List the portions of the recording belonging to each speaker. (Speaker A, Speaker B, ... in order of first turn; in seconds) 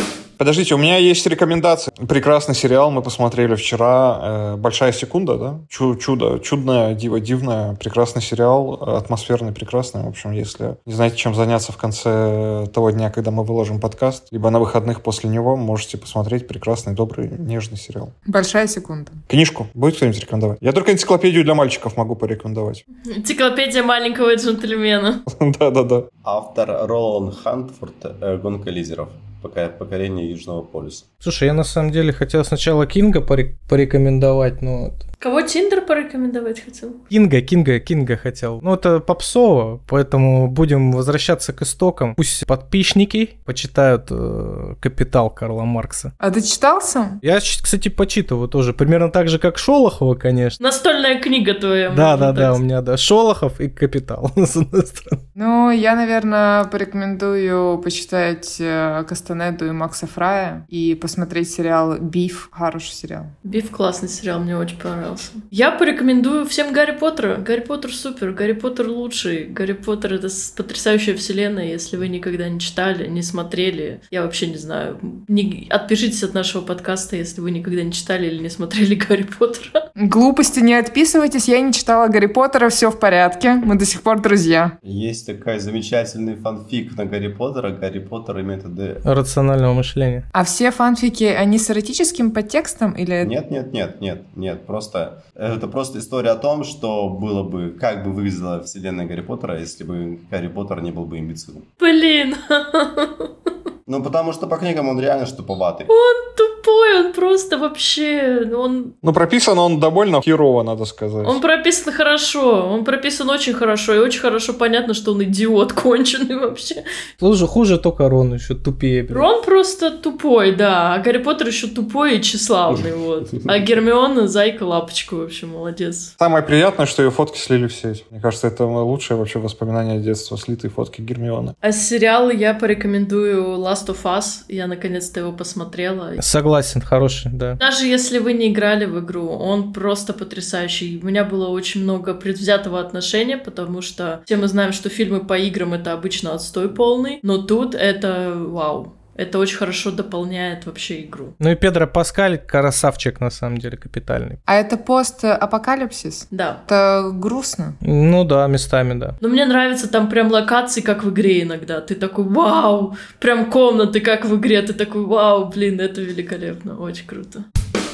Speaker A: 0.4-18.1, 19.3-22.8, 25.3-26.1, 109.0-111.4, 126.2-131.5
Speaker B: 18.2-19.2, 46.2-47.2, 55.4-63.3, 80.0-84.8, 90.3-93.3, 154.5-157.8
Speaker C: 23.0-25.2, 35.2-37.0, 50.6-52.6, 63.4-79.8, 101.8-103.3, 105.9-109.0, 111.2-116.8, 119.1-126.1, 131.6-136.2, 137.6-151.3, 156.3-156.6, 159.2-167.4
Speaker D: 26.2-31.1, 84.8-89.0, 93.2-101.7, 103.8-105.9
Speaker E: 31.2-35.0, 37.1-46.1, 47.2-50.6, 51.9-55.2, 89.0-90.2, 117.2-119.2, 136.2-137.6, 151.4-154.4, 157.8-159.1